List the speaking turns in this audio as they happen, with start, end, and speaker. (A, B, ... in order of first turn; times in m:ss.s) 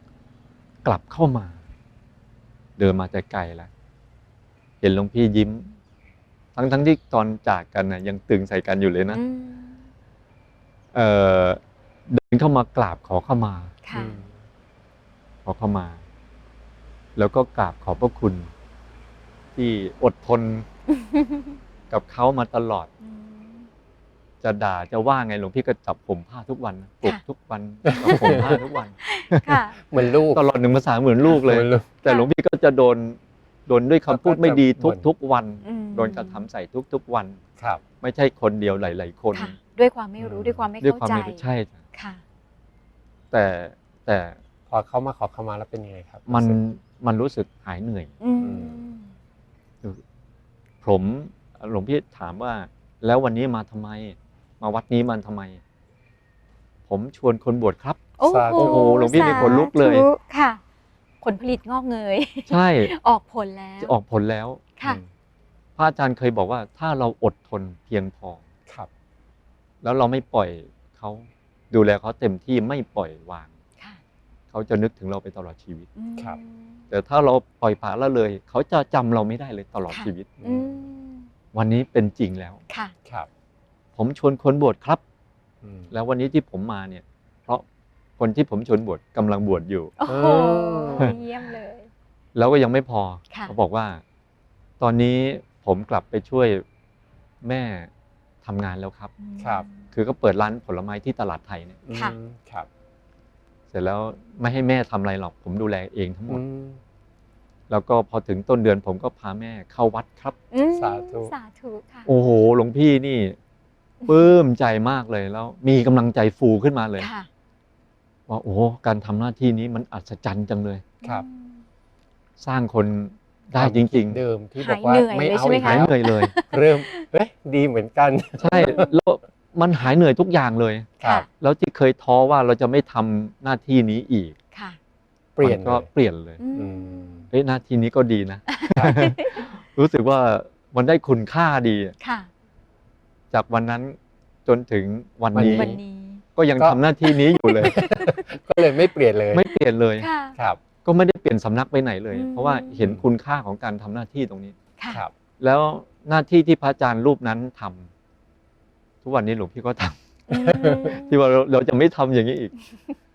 0:00.8-0:01.6 A
0:02.8-0:03.7 A
0:04.8-0:05.8 A
0:06.5-0:09.2 A
0:09.1-0:09.9 B
0:10.9-0:13.7 A
0:13.8-0:14.2 B
0:13.9-0:14.3 C
0:15.4-0:16.0 A
0:17.1-0:18.5 A
0:19.5-0:20.7 A
0:20.9-0:21.6 B
0:21.9-0:22.9 A
0:23.0-0:23.7 B
0:24.4-0:29.6 A
0:27.8-0:28.6 C
0:28.1-0:29.8 B
0:29.8-0:30.4 C
0:30.2-0:37.4 A
0:31.3-0:31.9 C
0:34.1-0:35.0 C
0:35.6-0:36.4 B
0:38.0-0:39.6 A
0:39.3-0:41.4 B
0:40.2-0:40.7 C
0:40.8-0:41.8 A
0:41.9-0:42.2 B
0:43.3-0:44.4 A
0:44.7-0:46.6 C
0:46.3-0:48.1 A
0:48.2-0:49.1 B
0:48.4-0:48.9 C
0:50.8-0:55.6 A
0:56.9-1:00.1 A
0:58.2-1:00.6 B
0:58.2-0:59.6 C
1:01.2-1:03.9 B
1:02.5-1:02.9 A
1:03.8-1:04.6 A
1:04.8-1:05.1 C
1:05.8-1:08.4 A
1:09.8-1:13.5 A
1:14.5-1:15.9 A
1:16.0-1:16.8 B
1:16.9-1:20.3 A
1:19.9-1:21.3 B
1:20.4-1:20.8 C
1:21.5-1:22.6 A
1:24.0-1:25.0 A
1:25.6-1:25.9 C
1:25.9-1:27.6 A
1:28.2-1:29.9 A
1:30.0-1:31.9 B
1:30.0-1:31.2 C
1:32.3-1:34.0 A
1:34.8-1:36.6 A
1:37.4-1:37.9 A
1:38.4-1:39.1 A
1:39.2-1:39.8 B
1:39.4-1:39.6 C
1:39.9-1:41.8 A
1:41.8-1:42.7 C
1:43.7-1:46.4 A
1:46.3-1:46.8 C
1:47.7-1:50.4 A
1:50.5-1:52.1 B
1:50.7-1:51.3 C
1:52.0-1:53.4 A
1:54.0-1:54.3 B
1:54.0-1:57.1 A
1:57.0-1:57.3 B
1:58.3-2:00.8 A
2:01.0-2:01.6 B
2:02.4-2:04.2 A
2:03.6-2:08.9 C
2:04.6-2:07.0 B
2:05.5-2:06.3 A
2:08.4-2:14.4 A
2:08.5-2:08.9 B
2:14.5-2:14.8 B
2:15.4-2:15.9 C
2:15.4-2:16.4 A
2:16.4-2:17.2 B
2:16.5-2:17.3 C
2:17.3-2:22.0 A
2:18.5-2:19.4 B
2:18.7-2:19.1 C
2:22.0-2:22.3 B
2:23.3-2:25.8 A
2:25.3-2:25.8 C
2:25.5-2:26.2 B
2:26.4-2:27.9 A
2:26.6-2:26.8 C
2:27.1-2:28.7 B
2:27.5-2:29.5 C
2:29.3-2:30.1 A
2:30.0-2:30.4 B
2:30.3-2:30.6 C
2:30.8-2:34.6 A
2:32.1-2:32.8 B
2:32.8-2:33.0 C
2:34.8-2:35.0 B
2:35.4-2:37.9 A
2:39.0-2:40.0 A
2:40.3-2:41.1 B
2:40.3-2:41.0 C
2:40.8-2:42.5 A